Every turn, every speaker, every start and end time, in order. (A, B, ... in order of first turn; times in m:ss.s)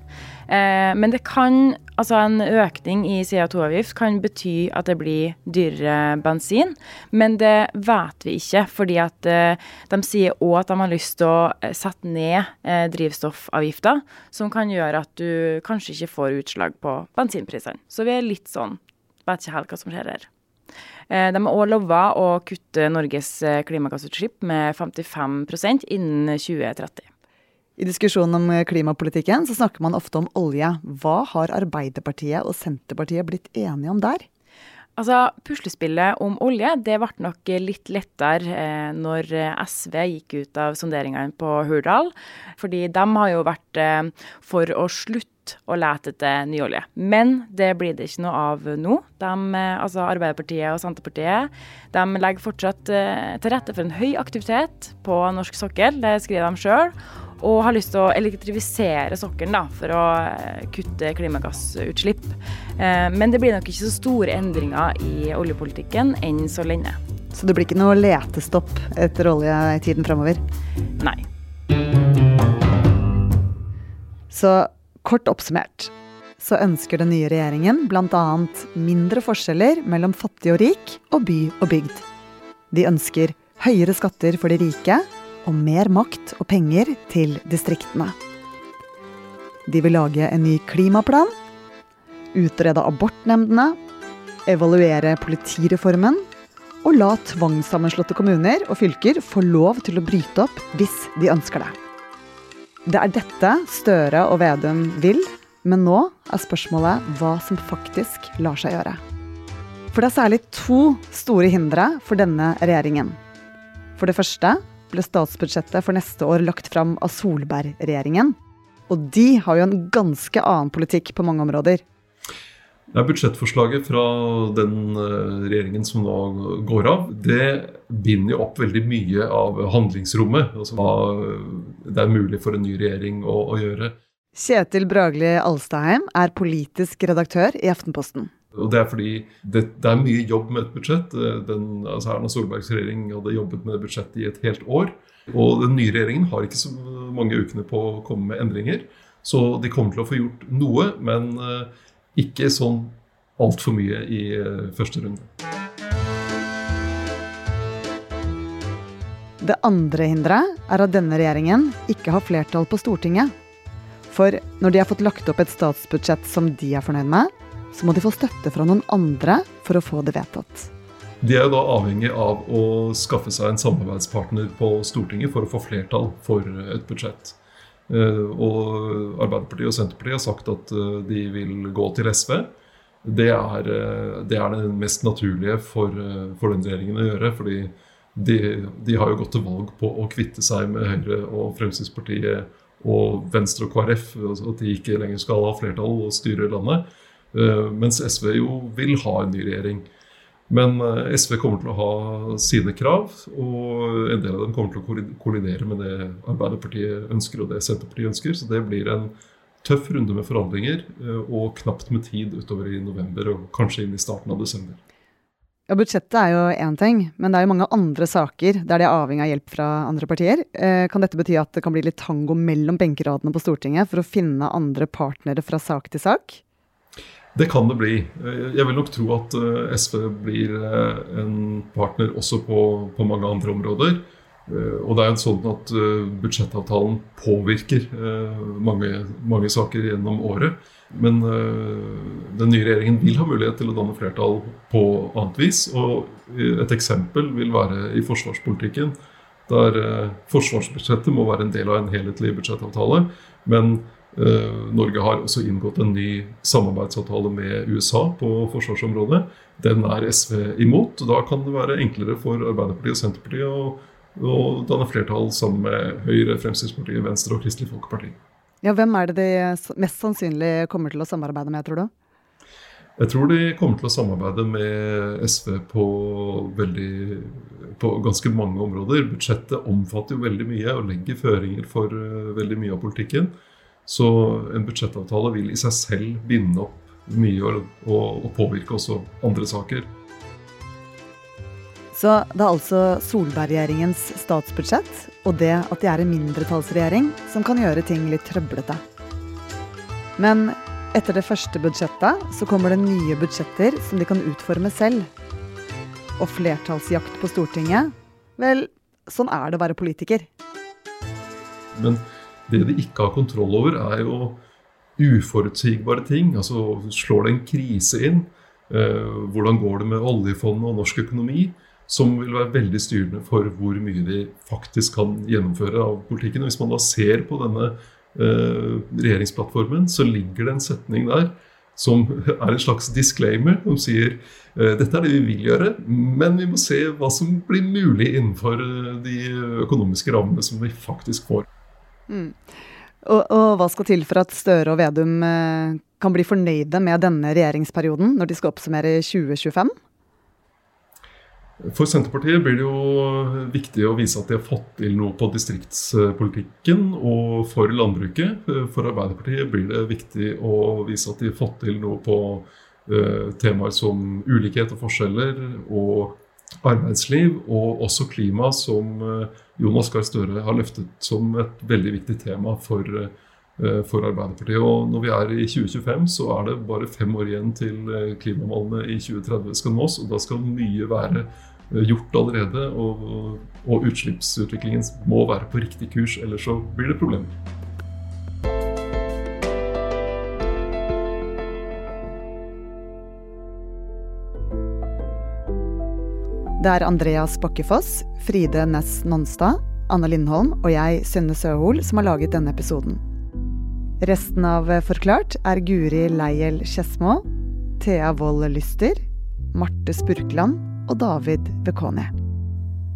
0:00.5-0:20.3 A
0:21.1-0:27.1 A
0:27.8-0:34.2 B
0:35.0-1:07.0 A
1:07.3-1:10.4 B
1:14.3-1:22.0 B
1:22.7-1:28.1 B
1:29.6-1:31.3 B
1:32.3-1:33.8 B
1:34.4-1:36.2 B
1:36.8-1:41.7 B
1:42.9-1:49.0 B
1:49.9-1:53.2 B
1:54.0-1:58.3 B
1:58.9-2:01.8 B
2:02.9-2:14.0 C
2:14.3-2:18.3 B
2:18.5-2:35.3 C
2:39.4-2:43.3 B
2:44.1-2:50.7 B
2:51.2-2:57.4 C
2:57.9-3:02.5 C
3:03.0-3:19.9 C
3:20.5-3:34.8 C
3:35.7-3:46.4 B
3:47.4-4:09.0 C
4:09.5-4:28.2 C
4:28.6-4:31.9 B
4:33.0-4:43.3 C
4:43.8-4:49.9 C
4:51.9-4:58.8 B
5:00.2-5:05.1 B
5:06.2-5:10.3 B
5:11.8-5:14.4 C
5:15.0-5:41.4 C
5:42.1-5:42.4 B
5:43.0-5:49.7 B
5:51.6-6:27.3 C
6:36.6-6:43.0 B
6:44.0-6:47.2 B
6:47.8-6:52.1 B